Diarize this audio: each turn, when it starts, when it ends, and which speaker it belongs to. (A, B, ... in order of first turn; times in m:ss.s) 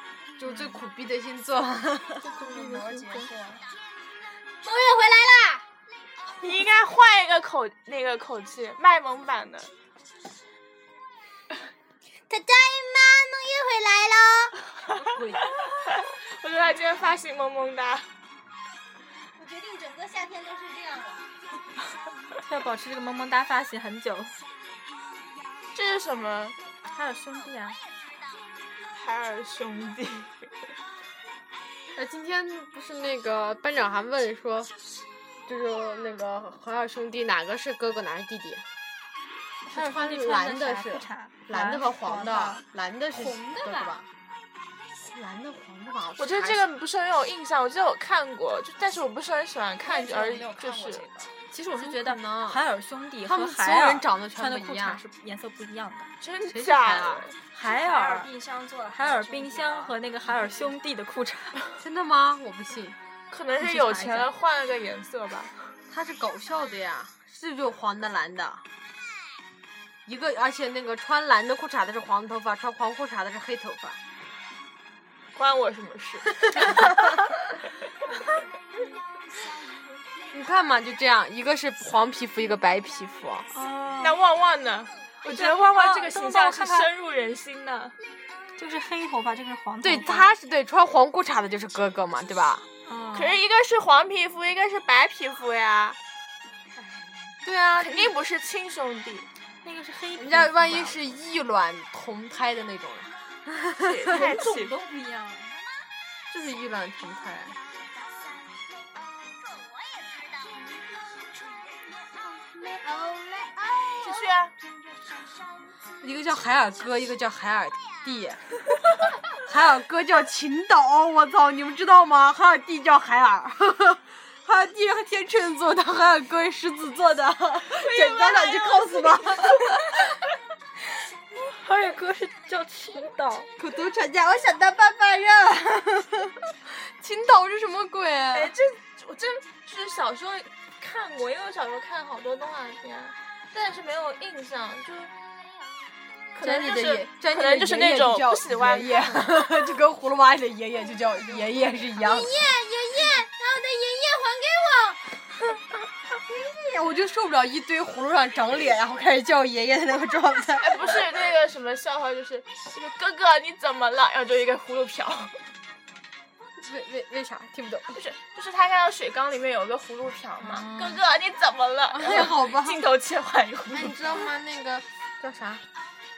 0:00.4-0:02.3 A
0:02.2-0:03.3 B
0:02.4-0:03.6 C
0:04.6-0:05.6 D
0:06.4-0:09.7 E
0:12.3-0:14.6 D
0:14.9-0:18.1 E
0:15.0-0:15.5 A
0:19.4-0:21.3 D
0:22.4-0:24.4 B
0:25.7-0:26.6 E
0:26.9-0:27.8 B
0:28.9-0:30.5 E
0:31.9-0:34.7 A
0:35.4-0:38.6 A
0:39.6-0:44.0 B
0:39.7-0:44.1 A
0:45.0-0:46.7 A
0:46.2-0:51.0 E
0:49.8-0:51.4 C
0:51.5-0:52.6 A
0:51.6-0:56.1 B
0:53.2-0:55.0 A
0:56.2-0:57.4 E
0:56.4-0:57.3 A
0:57.5-0:58.3 B
0:57.6-1:00.7 C
0:58.9-1:01.7 B
1:01.8-1:03.0 A
1:03.3-1:05.7 E
1:03.6-1:04.3 B
1:05.9-1:08.6 A
1:10.0-1:14.0 A
1:15.3-1:17.0 E
1:16.6-1:16.9 A
1:20.3-1:23.5 A
1:23.5-1:24.2 B
1:24.0-1:28.0 E
1:25.3-1:26.9 B
1:28.6-1:30.3 B
1:29.8-1:32.6 A
1:32.8-1:33.4 B
1:33.1-1:36.0 E
1:36.8-1:37.4 B
1:37.4-1:38.1 A
1:37.8-1:39.3 E
1:39.6-1:41.0 B
1:40.1-1:44.2 A
1:43.8-1:44.7 E
1:44.1-1:45.6 B
1:46.3-1:47.6 A
1:52.6-1:54.3 D
1:54.0-1:54.5 E
1:56.0-1:58.4 A
1:59.4-2:10.0 A
2:07.8-2:09.0 E
2:11.4-2:13.5 B
2:13.6-2:18.5 A
2:18.3-2:25.1 E
2:26.4-2:29.2 E
2:26.4-2:32.4 A
2:31.9-2:35.2 D
2:36.3-2:41.1 A
2:40.6-2:45.4 E
2:46.6-2:48.0 A
2:47.9-2:54.3 E
2:50.4-2:51.0 A
2:51.9-2:52.8 A
2:53.7-2:55.6 A